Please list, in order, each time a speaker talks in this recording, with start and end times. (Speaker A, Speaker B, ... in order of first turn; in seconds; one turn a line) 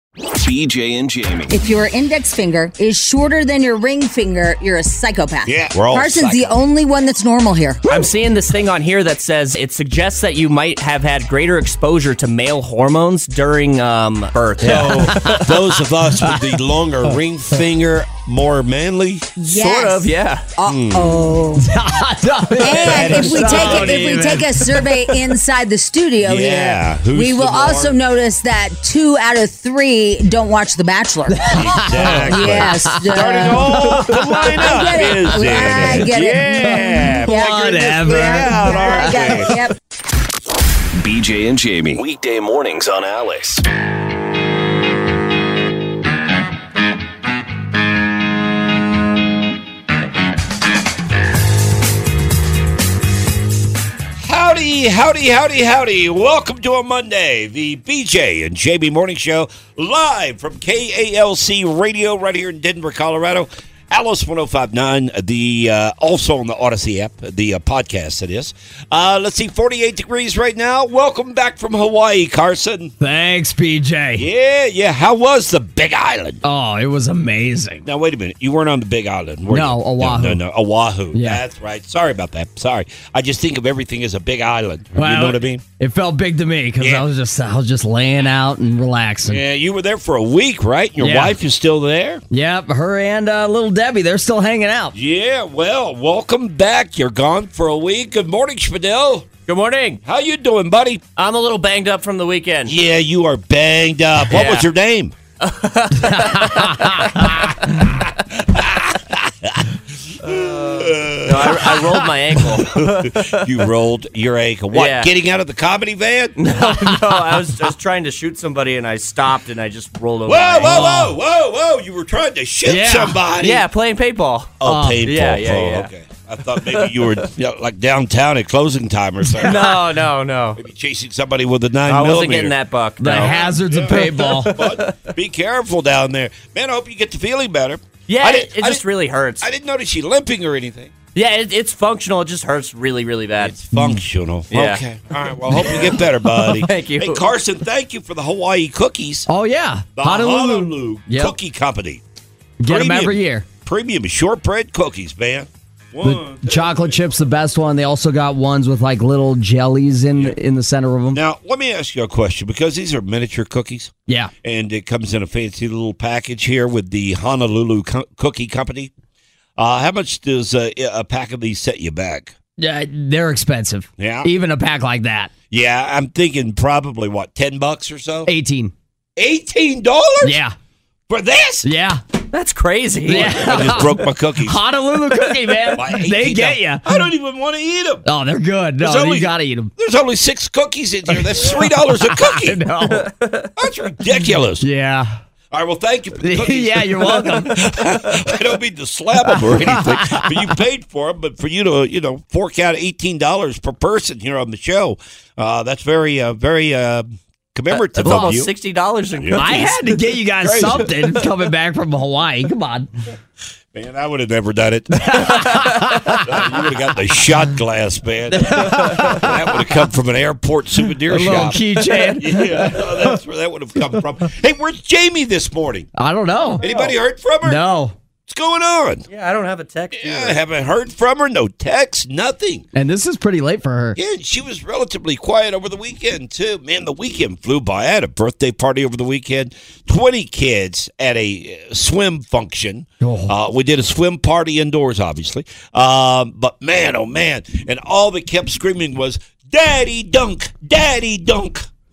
Speaker A: 0.3-1.5
Speaker B: 1.5-8.0
Speaker C: 5.5-6.6
Speaker D: 7.9-15.4
Speaker C: 14.6-19.3
Speaker E: 14.6-15.5
Speaker E: 16.2-16.5
Speaker B: 19.4-21.7
Speaker D: 19.5-20.5
Speaker C: 20.7-21.2
Speaker E: 21.6-25.2
Speaker B: 22.6-31.5
Speaker C: 22.6-24.4
Speaker C: 26.2-28.0
Speaker E: 31.3-34.7
Speaker C: 31.5-39.6
Speaker B: 32.1-39.7
Speaker E: 35.4-39.5
Speaker A: 41.0-43.6
Speaker C: 54.2-72.9
Speaker E: 73.0-74.3
Speaker C: 74.2-76.4
Speaker E: 76.4-77.9
Speaker C: 77.9-85.6
Speaker E: 79.5-80.4
Speaker E: 81.1-81.4
Speaker E: 85.0-89.4
Speaker C: 86.8-87.0
Speaker C: 89.2-92.2
Speaker E: 91.0-91.3
Speaker E: 92.3-94.9
Speaker C: 95.0-99.3
Speaker D: 99.5-100.0
Speaker C: 100.0-101.0
Speaker D: 101.2-102.7
Speaker C: 102.7-105.2
Speaker D: 104.3-104.7
Speaker D: 105.4-107.1
Speaker C: 108.0-109.7
Speaker C: 110.2-116.5
Speaker D: 110.2-113.5
Speaker D: 114.7-115.1
Speaker D: 116.4-121.1
Speaker C: 120.3-123.7
Speaker E: 120.6-121.1
Speaker E: 122.7-123.2
Speaker D: 123.3-125.9
Speaker C: 124.6-129.9
Speaker E: 124.6-125.0
Speaker D: 126.6-127.3
Speaker D: 129.3-130.6
Speaker C: 130.6-138.8
Speaker D: 131.9-135.0
Speaker E: 133.0-134.6
Speaker D: 138.1-139.5
Speaker C: 139.4-140.9
Speaker D: 141.2-143.6
Speaker C: 143.4-149.3
Speaker E: 143.7-144.0
Speaker D: 144.5-144.8
Speaker D: 145.5-147.3
Speaker E: 149.3-151.3
Speaker C: 150.0-152.0
Speaker E: 152.6-153.5
Speaker C: 152.7-157.0
Speaker E: 156.0-161.2
Speaker C: 161.1-168.9
Speaker C: 169.6-172.3
Speaker E: 172.6-175.3
Speaker C: 174.0-174.3
Speaker C: 175.5-178.3
Speaker E: 178.3-178.7
Speaker C: 179.2-180.4
Speaker E: 180.2-180.6
Speaker C: 181.1-181.7
Speaker E: 181.6-182.0
Speaker D: 182.3-183.7
Speaker E: 183.1-187.1
Speaker C: 183.1-184.6
Speaker C: 185.8-188.1
Speaker E: 188.1-189.7
Speaker C: 188.8-192.6
Speaker E: 191.1-193.1
Speaker D: 192.9-193.5
Speaker C: 193.6-194.7
Speaker E: 194.6-195.2
Speaker C: 195.5-208.5
Speaker E: 196.2-198.4
Speaker E: 199.2-200.4
Speaker D: 207.7-210.0
Speaker C: 209.2-209.8
Speaker E: 209.4-212.9
Speaker C: 210.4-211.2
Speaker C: 213.7-225.9
Speaker E: 214.9-216.4
Speaker E: 218.3-219.9
Speaker E: 221.1-223.2
Speaker E: 225.9-226.7
Speaker C: 226.6-227.6
Speaker D: 226.6-226.9
Speaker E: 227.4-227.9
Speaker C: 228.3-229.1
Speaker D: 229.1-230.4
Speaker C: 229.9-232.7
Speaker E: 232.8-234.0
Speaker C: 234.0-251.7
Speaker E: 243.0-243.3